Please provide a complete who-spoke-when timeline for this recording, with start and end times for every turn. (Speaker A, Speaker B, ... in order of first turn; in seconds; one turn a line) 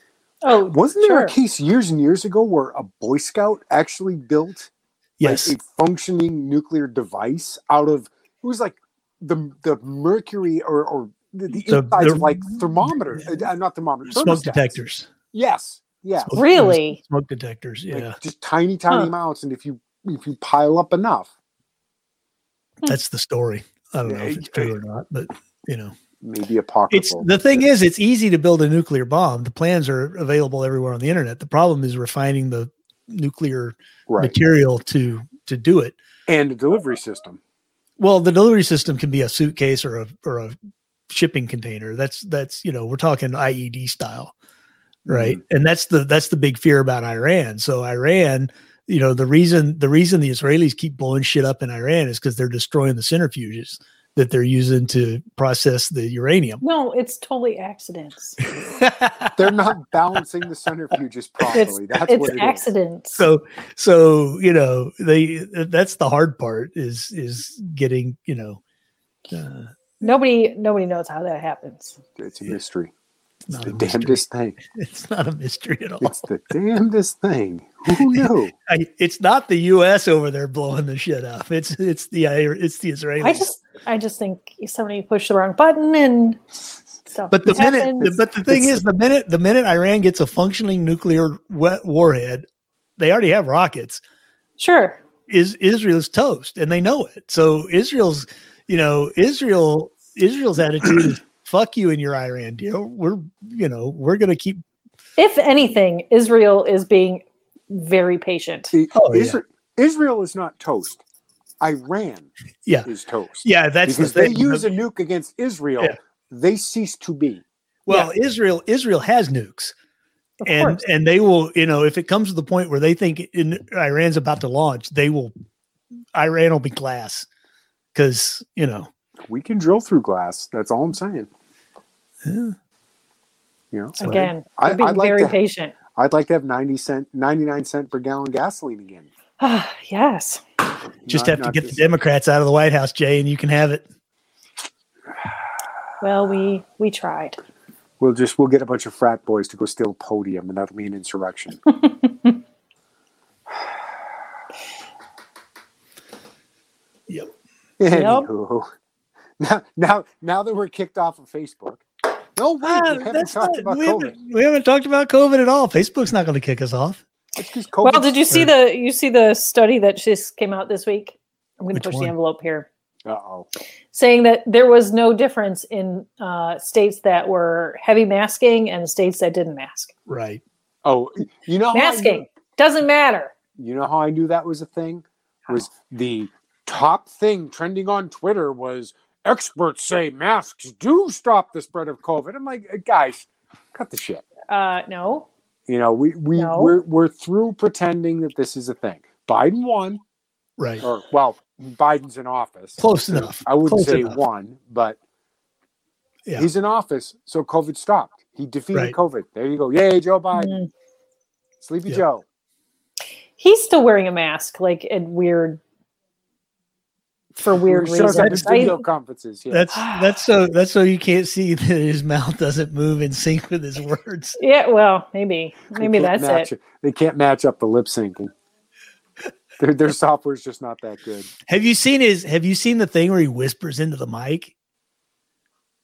Speaker A: 0.4-1.3
Speaker B: 0.7-4.7
Speaker C: 5.2-5.5
Speaker B: 5.2-14.8
Speaker C: 11.7-13.4
Speaker C: 14.1-15.1
Speaker B: 15.3-16.4
Speaker C: 16.2-18.2
Speaker A: 16.4-17.0
Speaker B: 17.9-21.3
Speaker C: 22.9-25.9
Speaker B: 24.1-24.8
Speaker B: 26.2-27.7
Speaker C: 26.9-36.0
Speaker B: 34.1-34.4
Speaker B: 36.3-37.4
Speaker C: 38.0-40.6
Speaker C: 41.1-44.3
Speaker B: 45.1-45.4
Speaker C: 45.1-56.6
Speaker A: 56.6-58.4
Speaker C: 58.5-59.5
Speaker B: 59.4-62.6
Speaker A: 61.5-63.3
Speaker C: 63.1-68.6
Speaker C: 69.3-69.8
Speaker A: 70.0-72.0
Speaker B: 72.2-72.9
Speaker C: 73.5-74.2
Speaker B: 73.6-74.6
Speaker C: 74.7-76.2
Speaker B: 76.0-78.5
Speaker C: 77.9-83.5
Speaker A: 83.2-86.4
Speaker A: 87.1-88.1
Speaker C: 87.3-92.5
Speaker B: 88.0-88.8
Speaker C: 93.0-94.0
Speaker A: 94.6-95.0
Speaker C: 95.3-104.6
Speaker A: 105.2-108.7
Speaker B: 108.7-111.0
Speaker C: 108.9-109.4
Speaker B: 111.6-112.3
Speaker B: 112.9-117.4
Speaker C: 113.4-114.7
Speaker C: 117.9-119.7
Speaker A: 120.4-120.8
Speaker C: 120.5-125.3
Speaker C: 126.2-127.3
Speaker C: 127.9-128.9
Speaker B: 129.3-131.3
Speaker C: 132.2-132.6
Speaker B: 133.7-135.4
Speaker A: 134.0-135.8
Speaker C: 134.0-134.3
Speaker B: 135.9-139.1
Speaker A: 139.4-140.4
Speaker B: 141.1-141.8
Speaker C: 141.1-143.8
Speaker A: 146.0-147.4
Speaker B: 148.0-151.6
Speaker A: 151.9-152.4
Speaker B: 157.8-158.7
Speaker A: 157.9-158.3
Speaker B: 159.4-161.8
Speaker B: 162.4-164.2
Speaker C: 162.6-167.0
Speaker B: 167.4-168.2
Speaker A: 167.8-172.7
Speaker C: 171.7-172.1
Speaker B: 173.1-173.5
Speaker A: 173.9-179.9
Speaker C: 180.1-180.4
Speaker B: 180.8-182.2
Speaker A: 181.7-183.3
Speaker B: 183.6-194.2
Speaker A: 194.5-195.3
Speaker B: 195.7-200.0
Speaker A: 196.4-196.7
Speaker C: 200.6-200.8
Speaker B: 200.8-205.0
Speaker C: 202.8-204.2
Speaker B: 206.4-210.6
Speaker A: 210.3-210.7
Speaker B: 211.6-212.2
Speaker A: 213.4-215.6
Speaker A: 217.4-218.8
Speaker B: 217.5-219.8
Speaker C: 218.2-218.5
Speaker C: 219.5-224.4
Speaker A: 219.7-220.1
Speaker A: 224.4-226.5
Speaker B: 225.8-228.3
Speaker B: 229.6-231.3
Speaker C: 231.5-234.5